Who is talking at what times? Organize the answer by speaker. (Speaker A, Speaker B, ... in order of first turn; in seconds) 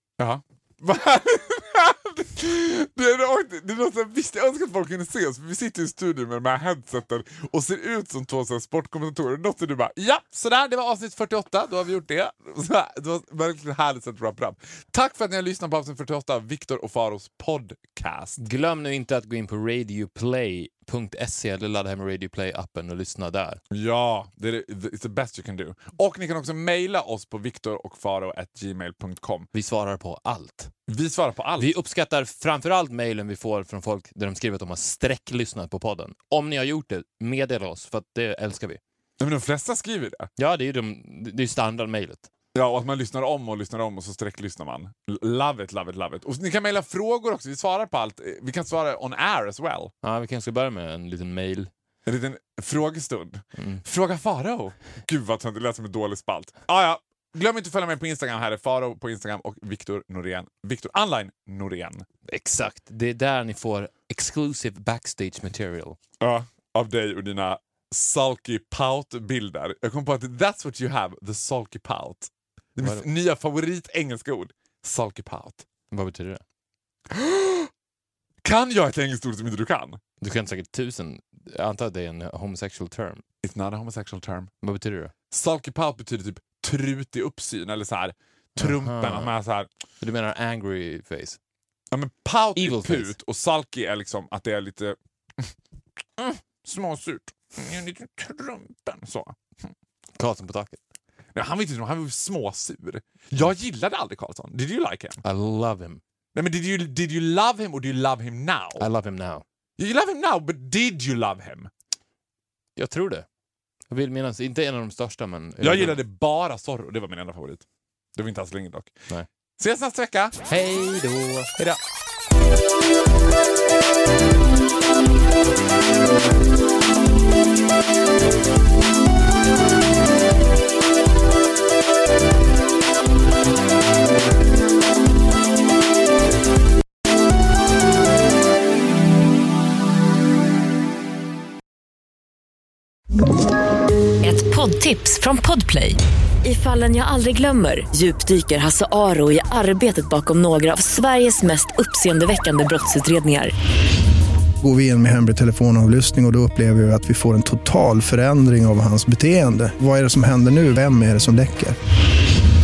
Speaker A: 0.2-18.4, 23.7-29.5, 30.9-31.7, 39.2-40.3, 42.5-49.9, 52.0-62.0, 66.2-75.7, 77.1-77.7, 78.4-80.0, 83.4-84.5, 85.3-89.7, 91.9-95.5, 96.2-99.7, 101.3-105.2, 106.3-108.8, 109.8-111.7, 115.6-117.6, 118.2-119.0, 119.6-120.5
Speaker B: 18.4-23.6, 29.5-30.7, 31.6-38.8, 40.4-42.3, 50.0-51.7, 53.6-53.8, 62.3-66.0, 75.9-76.4, 80.2-83.2, 84.6-85.1, 88.6-89.3, 90.0-91.4, 92.5-93.1, 100.2-100.8, 105.2-106.0, 108.8-109.4, 112.8-113.2, 113.9-116.0, 120.5-121.5
Speaker C: 144.2-153.5
Speaker D: 154.6-161.8